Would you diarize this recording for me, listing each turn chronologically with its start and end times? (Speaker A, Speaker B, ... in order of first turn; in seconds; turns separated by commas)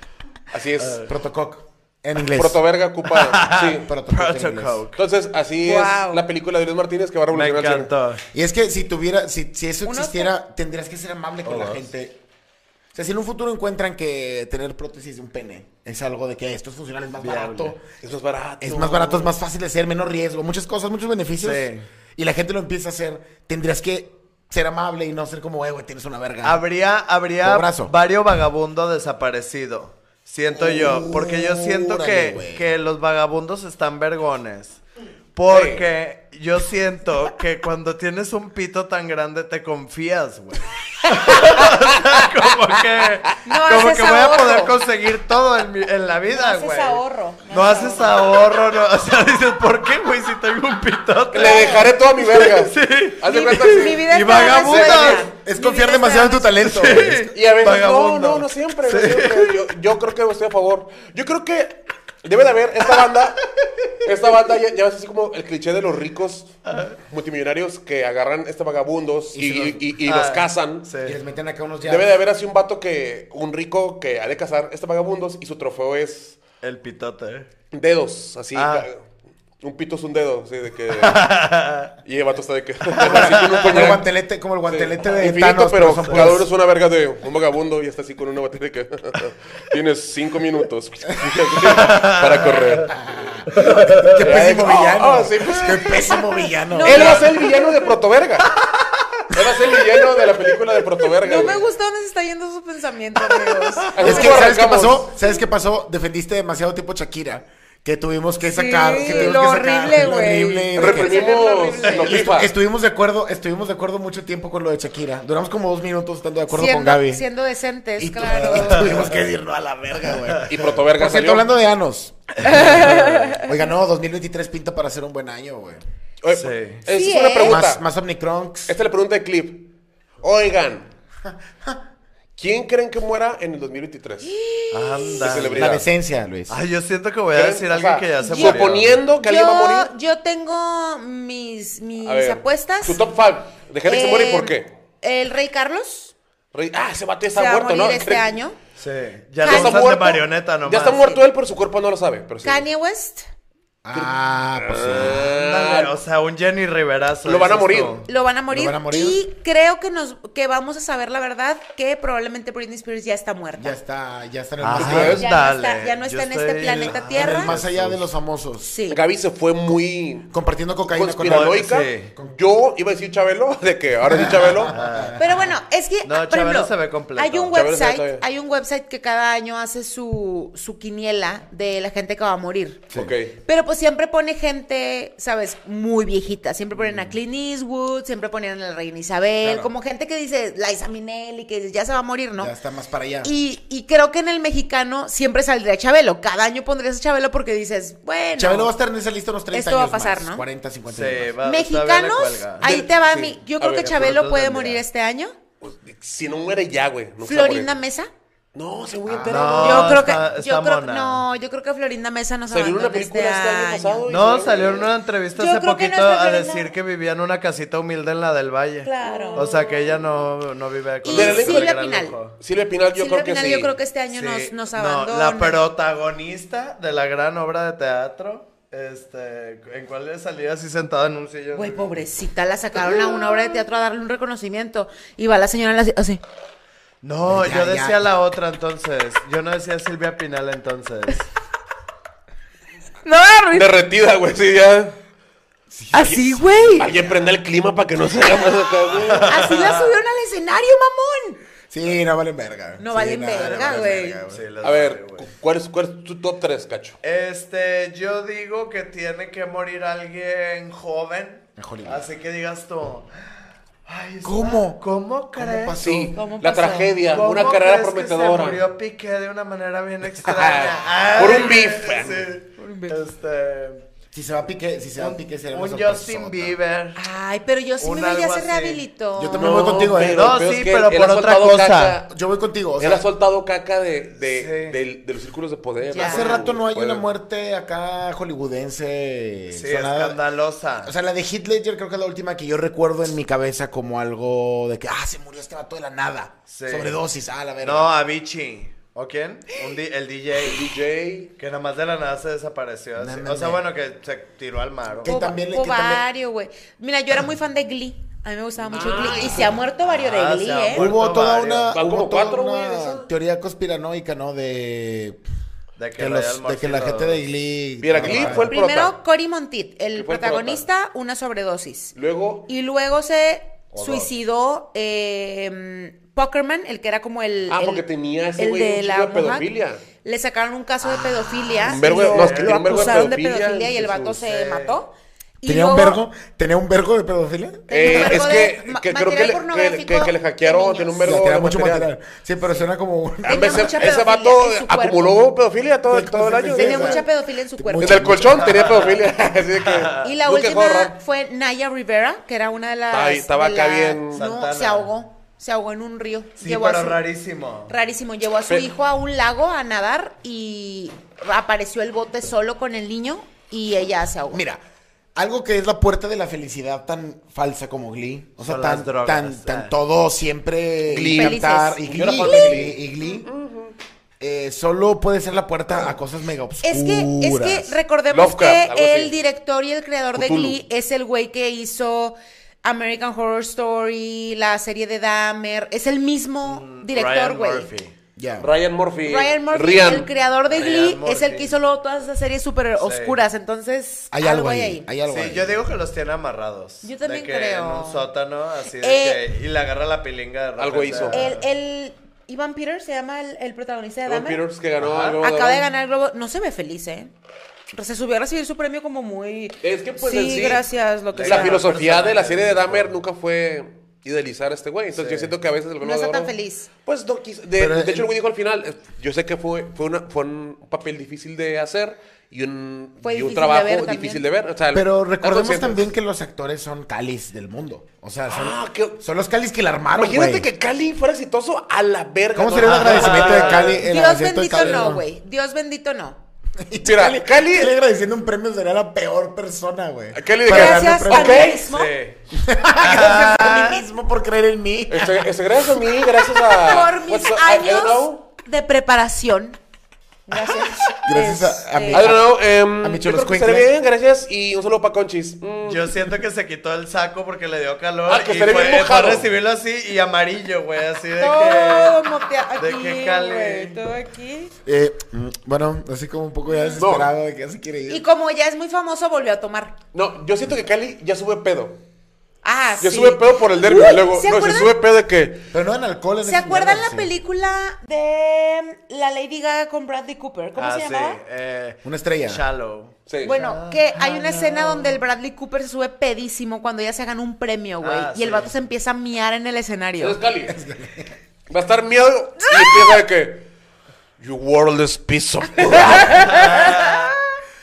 Speaker A: 0.5-1.1, Speaker B: 1.0-2.6, Speaker A: 2.3-3.9, Speaker C: 3.1-5.0, Speaker B: 3.8-4.8, Speaker A: 5.0-7.9, Speaker D: 5.6-6.2, Speaker C: 7.3-8.2, Speaker B: 8.3-12.2, Speaker D: 9.8-10.3, Speaker C: 11.4-11.9, Speaker B: 12.9-17.9, Speaker C: 17.2-17.8, Speaker A: 18.0-19.4, Speaker B: 18.6-26.6, Speaker C: 21.4-21.9, Speaker C: 26.4-34.8, Speaker B: 27.4-27.9, Speaker B: 30.5-32.7, Speaker C: 35.4-55.3, Speaker A: 35.5-35.9, Speaker D: 43.5-44.8, Speaker D: 46.3-48.3, Speaker A: 51.3-55.3, Speaker D: 51.4-51.9, Speaker D: 53.2-56.6, Speaker B: 55.4-57.3, Speaker C: 56.6-59.6, Speaker A: 57.3-63.5, Speaker C: 63.0-63.7, Speaker A: 64.0-70.9, Speaker C: 66.7-66.9, Speaker B: 69.3-69.9, Speaker C: 70.0-71.2, Speaker B: 71.0-72.2, Speaker A: 71.8-76.4, Speaker C: 76.6-77.5, Speaker A: 77.7-79.0, Speaker C: 78.5-78.9, Speaker A: 79.6-81.3, Speaker C: 80.9-81.9, Speaker A: 82.0-84.0, Speaker C: 83.0-83.8, Speaker B: 83.0-86.5, Speaker A: 84.7-93.0, Speaker C: 91.6-92.9, Speaker B: 92.9-97.3, Speaker C: 93.6-94.1, Speaker A: 93.6-96.0, Speaker D: 96.7-97.7, Speaker A: 96.8-98.5, Speaker A: 99.3-101.7, Speaker D: 101.2-104.5, Speaker A: 103.9-105.1, Speaker B: 104.0-111.2, Speaker D: 108.5-112.4, Speaker C: 109.0-109.3, Speaker A: 110.8-112.5, Speaker B: 111.8-117.2, Speaker D: 116.5-119.2, Speaker B: 118.0-125.8, Speaker C: 118.4-119.2, Speaker A: 120.4-121.5, Speaker D: 122.4-123.5, Speaker C: 122.5-123.3, Speaker A: 126.2-127.8, Speaker C: 126.3-126.8, Speaker D: 126.9-127.6, Speaker B: 127.4-128.7, Speaker A: 128.7-129.7, Speaker A: 130.2-130.9, Speaker B: 131.2-131.8, Speaker A: 132.4-134.3, Speaker D: 134.2-135.3, Speaker C: 134.7-135.9, Speaker A: 135.2-135.8, Speaker B: 135.5-136.6, Speaker C: 136.5-139.0, Speaker A: 137.3-139.9, Speaker D: 138.2-138.7, Speaker D: 139.2-143.0, Speaker A: 142.1-144.7, Speaker D: 143.8-146.1, Speaker A: 146.5-148.3, Speaker D: 147.3-148.6, Speaker C: 148.8-151.1, Speaker D: 149.4-149.8, Speaker A: 149.4-152.7, Speaker D: 151.0-151.2, Speaker D: 152.4-153.3, Speaker B: 153.8-155.3, Speaker A: 153.9-156.0, Speaker C: 154.9-158.1, Speaker A: 157.2-158.0, Speaker D: 158.1-163.8, Speaker B: 158.5-159.2, Speaker B: 163.6-165.3, Speaker C: 164.6-168.0, Speaker A: 164.8-165.3, Speaker D: 165.1-167.5, Speaker B: 167.1-168.8, Speaker D: 168.7-169.0, Speaker A: 168.9-170.3, Speaker B: 170.3-172.3, Speaker A: 170.8-174.7, Speaker C: 171.2-172.1, Speaker B: 174.1-175.2, Speaker C: 174.7-175.2, Speaker D: 175.2-182.9, Speaker C: 176.0-177.6, Speaker A: 177.5-178.2, Speaker B: 182.9-183.2, Speaker A: 182.9-183.4, Speaker D: 183.4-192.5, Speaker B: 189.4-189.7, Speaker B: 192.4-193.3, Speaker D: 193.2-198.7, Speaker B: 198.4-201.3, Speaker D: 199.5-200.5, Speaker C: 200.9-202.7, Speaker D: 201.4-205.4, Speaker A: 202.6-204.0, Speaker C: 203.9-204.8, Speaker A: 205.6-207.7, Speaker D: 207.2-208.1, Speaker A: 208.6-210.2, Speaker B: 209.1-209.6, Speaker C: 209.3-211.2, Speaker D: 209.6-214.1, Speaker A: 212.5-214.9, Speaker C: 214.1-222.4, Speaker D: 215.3-216.7, Speaker D: 218.8-219.8, Speaker D: 221.0-222.2, Speaker A: 221.1-221.8, Speaker A: 222.4-223.8, Speaker D: 222.9-225.6, Speaker C: 224.1-232.0, Speaker D: 231.5-236.2, Speaker C: 237.0-241.3, Speaker B: 237.2-238.1, Speaker D: 243.1-243.7, Speaker A: 243.5-245.0, Speaker B: 245.8-246.9, Speaker D: 245.9-246.9, Speaker A: 246.0-246.2, Speaker A: 246.8-249.4, Speaker C: 249.0-250.0, Speaker D: 249.2-251.4, Speaker B: 251.7-254.5, Speaker D: 252.8-254.2, Speaker C: 253.4-255.3, Speaker A: 254.6-257.0, Speaker C: 257.0-265.8, Speaker B: 261.6-262.1, Speaker B: 264.2-264.8, Speaker B: 265.4-266.2, Speaker A: 265.8-268.6, Speaker D: 266.1-266.9, Speaker C: 267.1-273.9, Speaker A: 270.2-272.3, Speaker D: 272.6-273.0, Speaker B: 274.1-276.6, Speaker C: 275.0-277.0, Speaker D: 277.0-279.5, Speaker C: 277.8-282.0, Speaker B: 279.2-280.3, Speaker A: 279.4-282.1, Speaker B: 282.1-283.1, Speaker A: 282.8-287.1, Speaker C: 284.3-284.8, Speaker D: 285.9-286.4, Speaker B: 286.0-290.2, Speaker C: 289.5-290.9, Speaker B: 290.8-297.9, Speaker C: 296.5-297.0, Speaker C: 297.6-300.6, Speaker A: 300.4-301.3, Speaker C: 301.4-305.2, Speaker B: 303.0-303.6, Speaker B: 305.0-306.1, Speaker D: 305.0-310.9, Speaker A: 308.7-309.6, Speaker C: 309.8-311.7, Speaker B: 310.7-315.2, Speaker A: 311.7-313.1, Speaker C: 315.8-317.2, Speaker B: 316.0-318.5, Speaker A: 317.8-318.9, Speaker C: 318.0-318.4, Speaker D: 318.4-321.9, Speaker A: 319.9-320.6, Speaker A: 321.9-322.5, Speaker D: 322.5-327.8, Speaker C: 323.7-324.1, Speaker A: 327.5-329.8, Speaker D: 328.4-329.5, Speaker D: 330.0-336.0, Speaker A: 331.6-333.8, Speaker C: 331.6-333.1, Speaker C: 333.7-334.8, Speaker B: 335.5-338.5, Speaker D: 337.7-341.1, Speaker A: 337.7-341.9, Speaker B: 341.0-343.7, Speaker D: 343.2-345.2, Speaker A: 343.3-347.0, Speaker B: 345.9-348.7, Speaker D: 346.5-348.2, Speaker A: 347.8-350.9, Speaker C: 348.4-349.1, Speaker C: 349.6-350.1, Speaker D: 350.0-357.0, Speaker A: 352.9-354.2, Speaker C: 354.1-354.9, Speaker C: 356.4-357.7, Speaker D: 357.7-364.4, Speaker B: 364.3-364.6, Speaker B: 365.1-373.3, Speaker C: 368.4-369.7, Speaker A: 370.9-373.8, Speaker D: 371.2-372.6, Speaker B: 374.2-377.8, Speaker D: 376.6-387.7, Speaker A: 378.1-379.2, Speaker A: 380.1-380.6, Speaker C: 386.4-387.9, Speaker B: 388.2-388.5, Speaker A: 388.4-390.1, Speaker D: 389.1-394.9, Speaker C: 390.5-391.6, Speaker C: 392.8-393.2, Speaker B: 394.1-395.7, Speaker C: 395.1-401.4, Speaker D: 396.8-398.1, Speaker D: 398.8-399.2, Speaker A: 400.6-401.3, Speaker D: 401.1-404.4, Speaker A: 404.1-405.7, Speaker C: 404.8-405.2, Speaker D: 405.2-407.1, Speaker D: 407.7-411.7, Speaker A: 409.6-410.7, Speaker C: 411.1-412.9, Speaker A: 411.2-416.3, Speaker C: 415.0-415.3, Speaker D: 415.8-416.7, Speaker A: 416.9-425.9, Speaker B: 417.6-418.1, Speaker D: 423.0-424.2, Speaker B: 424.7-430.5, Speaker A: 428.3-429.0, Speaker A: 429.9-433.8, Speaker B: 432.3-435.1, Speaker C: 432.6-433.8, Speaker D: 433.8-436.2, Speaker B: 436.6-441.6, Speaker A: 436.8-437.7, Speaker A: 440.1-441.7, Speaker D: 440.5-442.0, Speaker C: 441.7-442.2, Speaker B: 442.3-446.0, Speaker C: 442.8-443.8, Speaker A: 444.9-448.2, Speaker D: 446.5-449.6, Speaker D: 450.3-452.1, Speaker B: 450.9-453.7, Speaker A: 451.9-456.0, Speaker C: 455.6-462.0, Speaker A: 458.1-459.3, Speaker D: 461.2-464.5, Speaker C: 462.6-463.8, Speaker B: 464.6-468.1, Speaker D: 466.5-466.8, Speaker A: 466.8-467.1, Speaker D: 467.9-469.8, Speaker A: 469.9-471.8, Speaker D: 472.4-474.7, Speaker A: 472.8-475.5, Speaker B: 475.5-477.1, Speaker D: 476.2-481.2, Speaker C: 480.6-485.0, Speaker B: 481.8-482.4, Speaker A: 483.1-483.4, Speaker D: 483.2-490.2, Speaker C: 487.8-488.5, Speaker A: 490.0-490.6, Speaker B: 490.5-491.1, Speaker A: 491.5-493.5, Speaker D: 492.4-493.0, Speaker A: 494.2-496.9, Speaker C: 496.2-497.1